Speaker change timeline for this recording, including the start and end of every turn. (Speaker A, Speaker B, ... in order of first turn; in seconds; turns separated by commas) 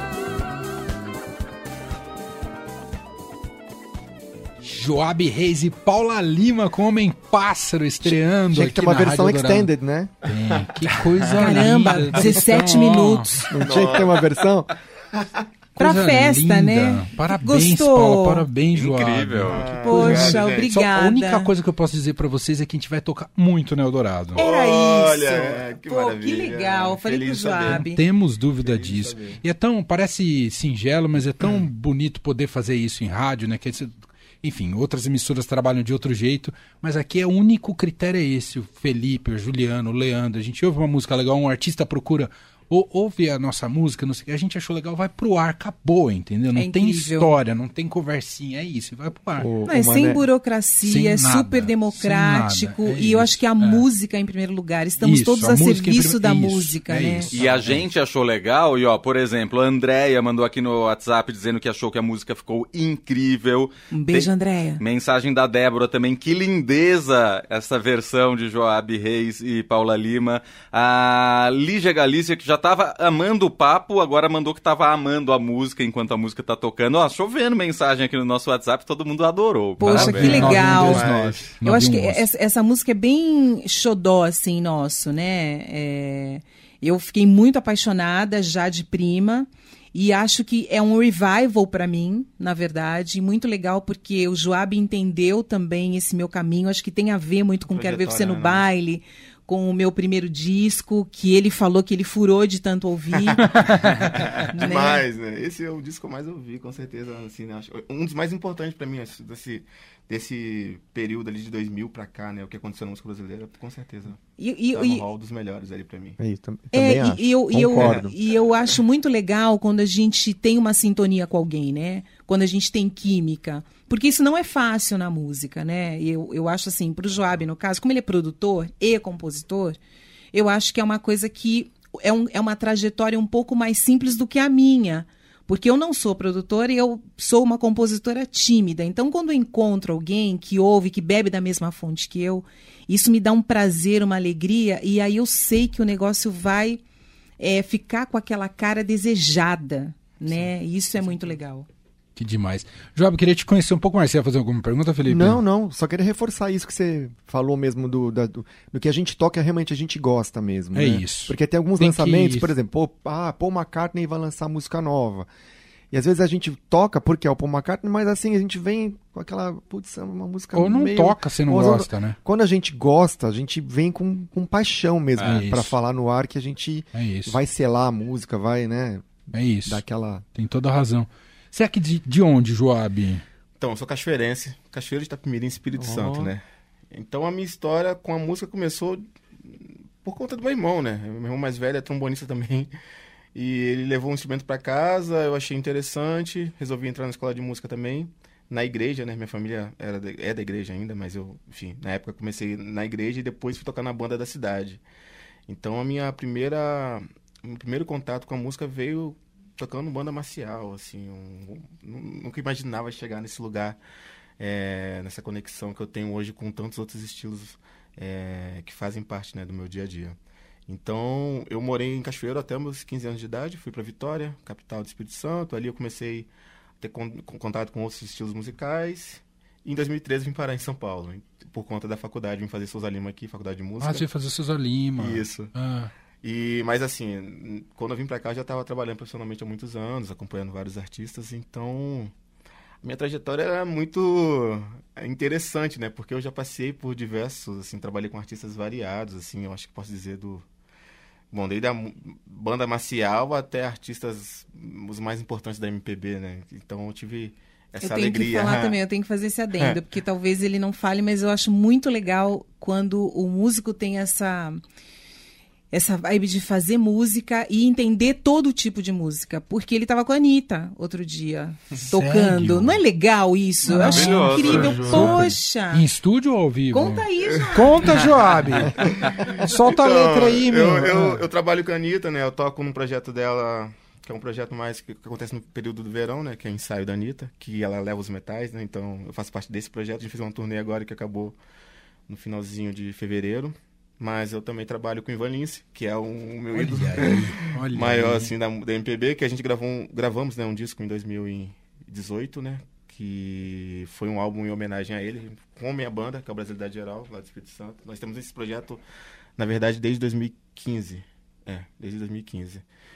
Speaker A: 4.6-9.7, Speaker B: 8.5-10.1, Speaker A: 10.2-13.4, Speaker C: 10.5-10.9, Speaker D: 11.3-13.6, Speaker B: 13.5-14.7, Speaker C: 13.6-14.4, Speaker A: 15.8-24.4, Speaker D: 15.8-18.4, Speaker E: 18.7-19.9, Speaker C: 19.4-20.7, Speaker D: 19.8-21.5, Speaker D: 24.3-28.0, Speaker C: 24.4-27.8, Speaker A: 27.6-49.5, Speaker C: 28.6-29.4, Speaker D: 46.5-47.4, Speaker B: 49.4-50.3, Speaker D: 49.7-57.3, Speaker A: 50.8-53.9, Speaker A: 55.0-57.9, Speaker E: 57.3-80.6, Speaker D: 63.9-64.8, Speaker D: 79.8-81.1, Speaker A: 79.8-82.2, Speaker C: 80.2-81.6, Speaker D: 81.6-103.5, Speaker C: 97.7-98.7, Speaker C: 103.2-114.2, Speaker A: 103.4-104.2, Speaker D: 104.4-105.1, Speaker D: 114.4-115.0, Speaker C: 114.7-116.2, Speaker B: 116.2-118.1, Speaker D: 116.7-129.8, Speaker C: 117.7-118.1, Speaker D: 130.3-146.8, Speaker D: 147.4-151.7, Speaker C: 150.2-151.4, Speaker A: 152.2-155.4, Speaker B: 155.1-165.3, Speaker A: 160.7-162.5, Speaker B: 165.9-179.1, Speaker A: 170.5-172.2, Speaker A: 175.2-175.8, Speaker A: 176.9-177.4, Speaker A: 179.3-179.8, Speaker B: 179.7-180.2, Speaker A: 180.3-183.2, Speaker C: 183.6-192.7, Speaker B: 185.7-186.3, Speaker C: 193.3-204.8, Speaker C: 205.5-213.8, Speaker C: 214.4-220.2, Speaker C: 220.7-226.3, Speaker C: 226.8-234.1, Speaker A: 233.8-235.9, Speaker C: 235.0-235.5, Speaker C: 236.2-242.1, Speaker C: 242.8-250.4, Speaker C: 251.3-258.8, Speaker D: 257.8-264.6, Speaker C: 259.6-259.8, Speaker D: 265.7-275.9, Speaker A: 271.8-272.8, Speaker A: 273.7-281.2, Speaker E: 273.9-275.0, Speaker C: 274.0-275.1, Speaker D: 276.7-278.1, Speaker C: 278.8-291.4, Speaker C: 292.1-308.8, Speaker A: 296.5-298.3, Speaker C: 309.4-312.6